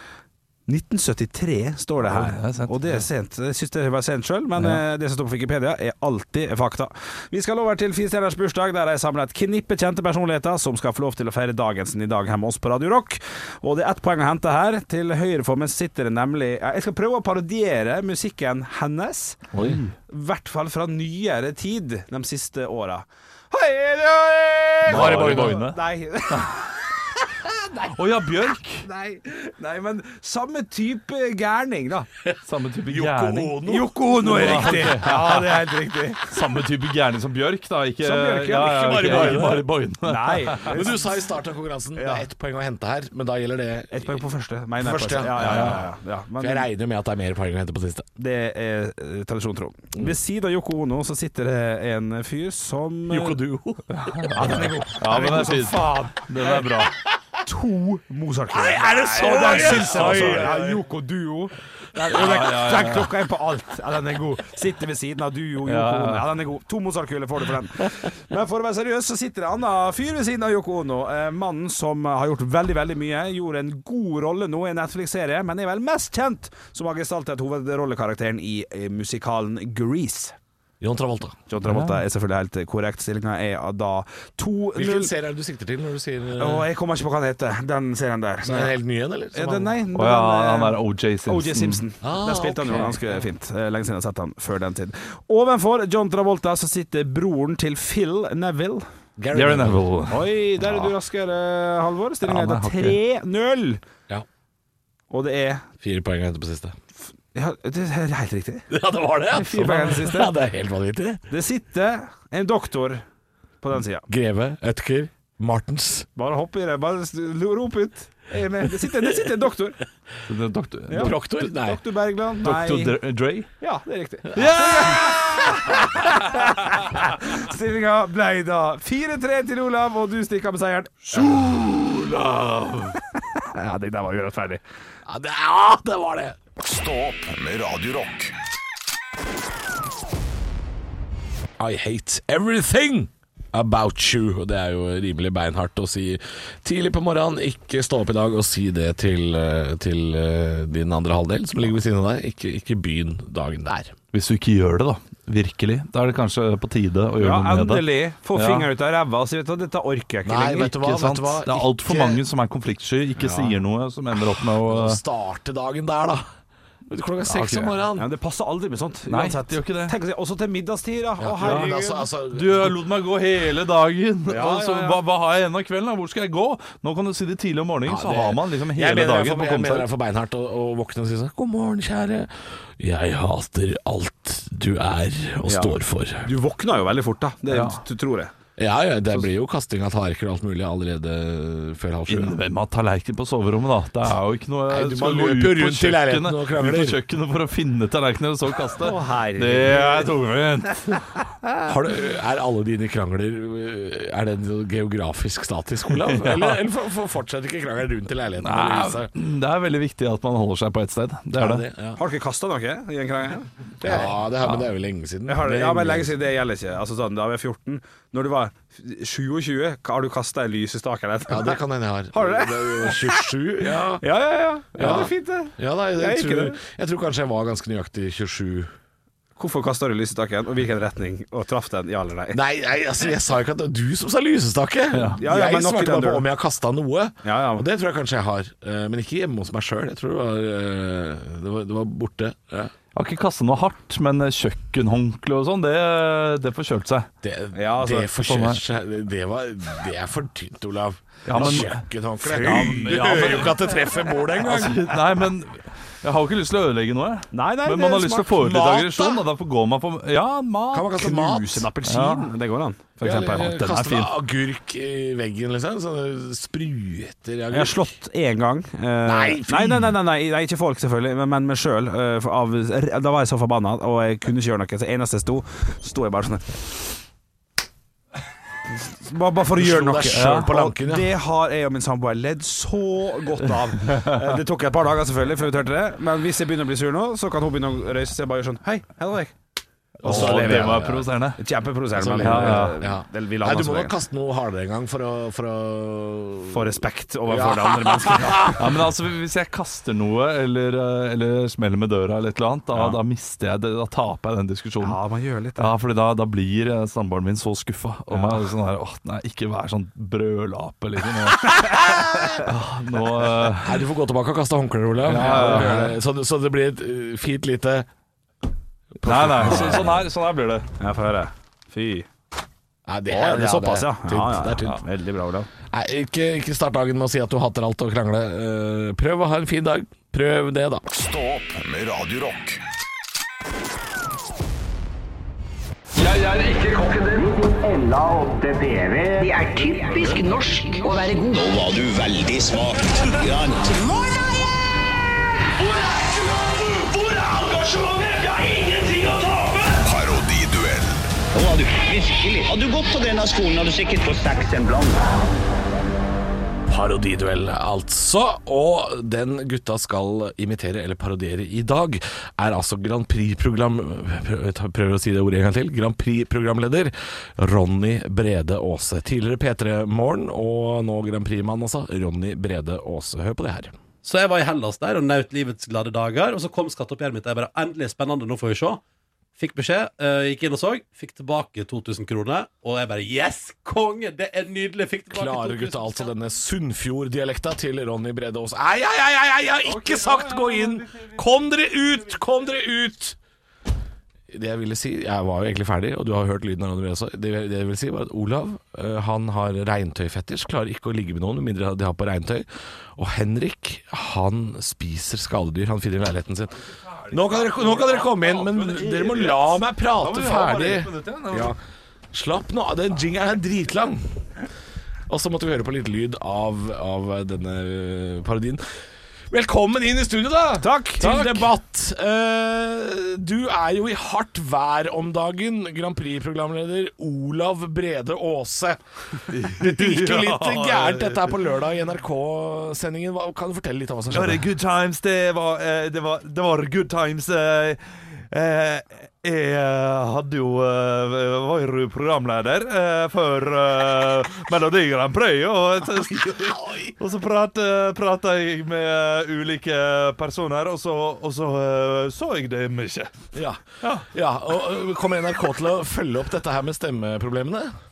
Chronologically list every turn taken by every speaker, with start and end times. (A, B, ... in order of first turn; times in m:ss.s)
0:00.7-0:19.4 A
0:02.0-0:03.0 B
0:19.6-0:19.9 B
0:20.1-0:26.6 A
0:24.9-0:25.8 B
0:24.9-0:25.6 C
0:26.3-0:26.6 B
0:27.8-0:28.8 B
0:28.8-0:32.1 A
0:32.2-0:35.1 C
0:32.4-0:33.7 B
0:33.6-0:36.3 A
0:34.2-0:35.6 B
0:36.3-0:40.9 B
0:38.0-0:41.0 A
0:38.7-0:39.7 C
0:40.6-0:44.2 C
0:42.0-0:42.2 A
0:43.9-0:46.7 A
0:44.8-0:45.9 C
0:45.4-0:45.8 B
0:46.4-0:48.1 C
0:48.2-0:53.4 A
0:53.1-0:54.8 C
0:53.9-0:56.9 B
0:54.3-0:56.5 A
0:57.4-1:20.3 A
0:58.5-1:00.8 C
0:59.7-1:00.5 B
1:02.1-1:03.1 B
1:05.6-1:06.3 B
1:20.8-1:21.4 C
1:21.5-1:25.1 A
1:21.6-1:22.0 B
1:24.7-1:26.6 C
1:26.4-1:28.7 A
1:28.4-1:29.8 C
1:29.3-1:38.8 A
1:29.9-1:31.8 B
1:32.0-1:33.2 C
1:39.2-1:39.9 C
1:39.3-1:40.2 B
1:40.1-1:43.8 A
1:42.2-1:43.0 B
1:45.1-1:45.6 A
1:45.8-1:46.8 C
1:47.3-1:48.6 A
1:48.7-1:51.2 C
1:49.3-1:50.3 A
1:51.3-1:53.0 A
1:53.6-1:54.1 A
1:54.1-1:56.1 C
1:56.2-1:59.8 A
2:00.2-2:01.2 B
2:00.9-2:03.0 A
2:00.9-2:01.8 C
2:02.4-2:03.5 B
2:03.6-2:11.3 A
2:04.3-2:05.5 B
2:11.1-2:13.0 B
2:13.3-2:14.6 A
2:15.0-2:16.4 C
2:16.6-2:18.3 D
2:21.6-2:33.9 C
2:34.1-2:38.7 B
2:37.2-2:40.8 A
2:40.2-2:42.2 C
2:40.8-2:45.0 B
2:43.2-2:43.5 A
2:44.3-2:46.2 C
2:46.9-2:48.1 C
2:47.3-2:47.7 B
2:48.0-2:52.0 A
2:49.1-2:49.9 B
2:51.2-2:52.8 C
2:51.4-2:51.7 B
2:52.3-2:59.9 B
2:54.3-2:55.0 A
2:57.8-3:06.3 C
3:05.4-3:08.3 A
3:07.5-3:07.8 B
3:08.6-3:12.4 C
3:12.1-3:21.0 B
3:14.7-3:17.0 C
3:18.8-3:20.1 A
3:21.6-3:29.1 C
3:26.0-3:26.6 B
3:28.4-3:31.6 B
3:31.4-3:32.0 C
3:32.0-3:34.1 A
3:33.8-3:36.1 C
3:35.3-3:41.6 A
3:41.3-3:44.0 C
3:42.1-3:43.3 A
3:44.0-3:46.6 A
3:44.7-3:48.7 C
3:49.4-3:52.4 A
3:52.3-4:02.7 C
3:54.9-3:55.2 B
3:55.2-3:56.2 A
3:57.2-3:57.6 A
4:02.9-4:07.1 B
4:07.2-4:14.9 C
4:07.5-4:08.1 A
4:08.2-4:08.6 B
4:11.2-4:11.8 B
4:11.3-4:11.7 A
4:12.2-4:13.5 A
4:12.4-4:13.7 B
4:14.4-4:20.7 B
4:17.3-4:18.4 A
4:18.3-4:19.2 C
4:20.6-4:23.6 A
4:20.7-4:21.7 C
4:21.9-4:22.3 B
4:23.0-4:27.9 C
4:23.2-4:24.1 B
4:27.5-4:36.8 A
4:29.0-4:29.9 C
4:38.9-4:49.3 A
4:39.5-4:41.1 C
4:50.0-4:51.4 B
4:50.0-4:54.0 A
4:50.0-4:51.0 C
4:52.0-4:58.6 C
4:52.2-4:52.8 B
4:56.5-4:58.6 A
4:58.6-5:05.0 B
5:02.7-5:03.0 A
5:04.8-5:05.7 A
5:05.6-5:13.8 B
5:08.1-5:08.4 A
5:11.6-5:12.4 A
5:13.6-5:17.9 C
5:15.0-5:15.9 B
5:15.1-5:15.9 A
5:19.0-5:20.0 C
5:19.0-5:20.7 B
5:20.8-5:22.1 A
5:22.8-5:24.8 C
5:23.1-5:25.5 A
5:25.7-5:30.8 C
5:30.9-5:32.6 D
5:36.0-5:44.1 E
5:45.6-5:49.8 E
5:49.8-5:51.1 D
5:51.3-5:55.1 E
5:56.7-6:13.8 C
6:14.0-6:18.8 F
6:19.4-6:26.1 F
6:25.1-6:33.2 C
6:29.7-6:31.0 B
6:34.3-6:51.6 C
6:46.7-6:51.5 B
6:52.1-6:54.0 C
6:55.1-6:58.6 C
6:59.3-7:14.4 C
7:00.6-7:01.4 A
7:09.3-7:11.4 B
7:14.1-7:33.1 B
7:33.3-7:37.7 C